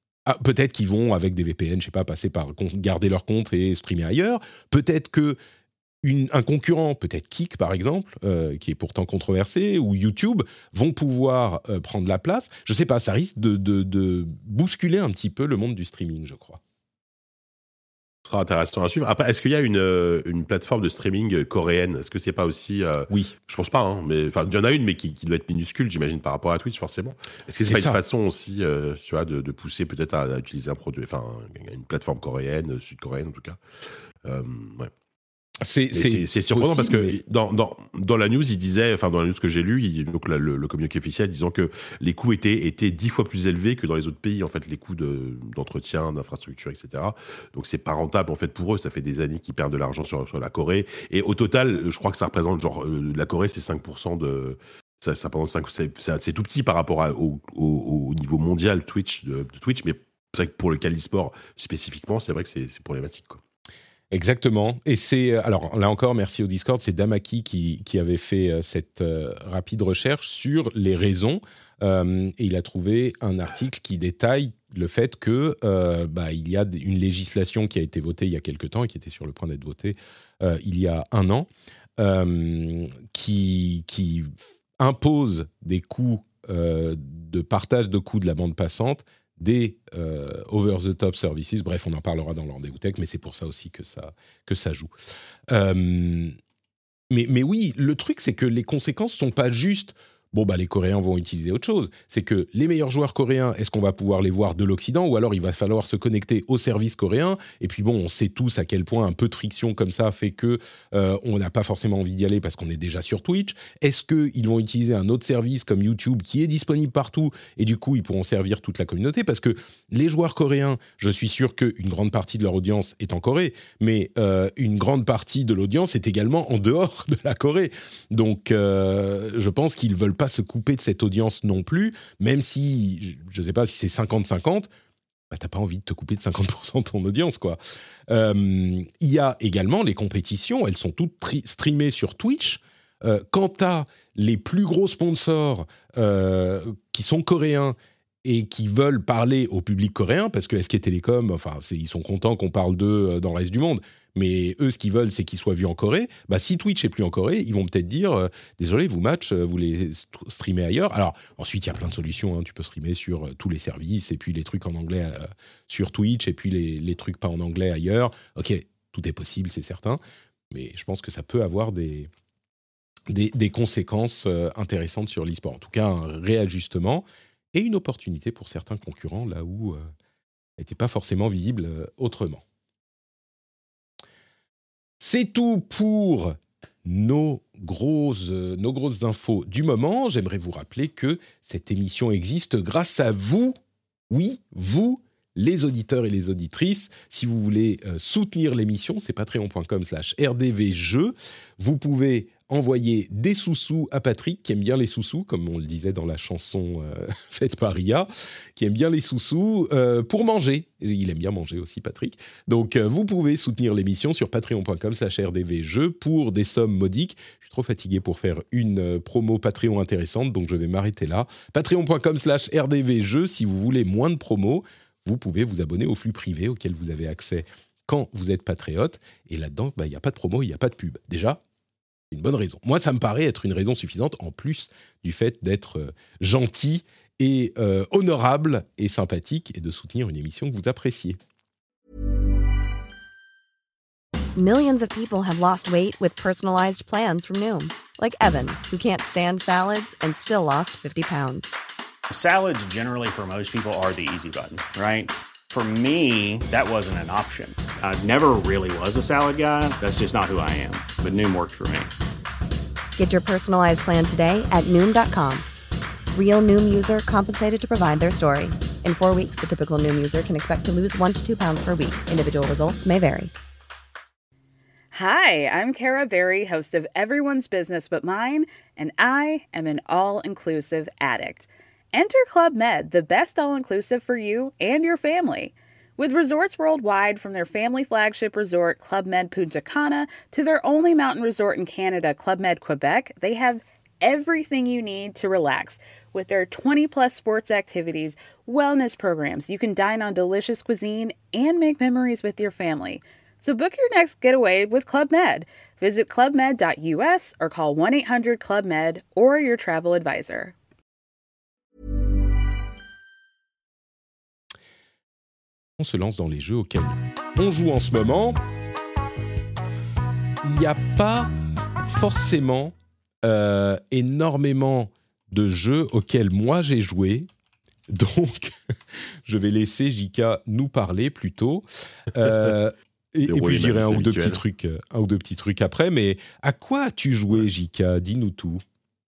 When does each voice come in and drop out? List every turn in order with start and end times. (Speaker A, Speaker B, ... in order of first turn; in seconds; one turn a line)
Speaker A: 0.3-5.4
Speaker A: 6.0-16.6
Speaker B: 18.2-33.6
Speaker A: 27.6-28.0
Speaker B: 34.2-34.9
Speaker A: 35.6-37.2
Speaker B: 35.9-63.4
Speaker A: 64.1-94.9
Speaker A: 95.5-96.3
Speaker A: 97.1-134.7
Speaker A: 135.3-172.1
Speaker A: 173.1-179.8
Speaker A: 180.6-182.4
Speaker A: 185.0-193.6
Speaker A: 194.1-231.4
Speaker A: 232.1-241.2
Speaker C: 244.3-251.6
Speaker D: 252.1-261.9
Speaker C: 263.0-265.5
Speaker C: 266.1-273.3
Speaker E: 274.9-310.6
Speaker A: 315.8-318.4
Speaker A: 320.4-327.3
Speaker A: 327.9-338.6
Speaker B: 333.3-334.4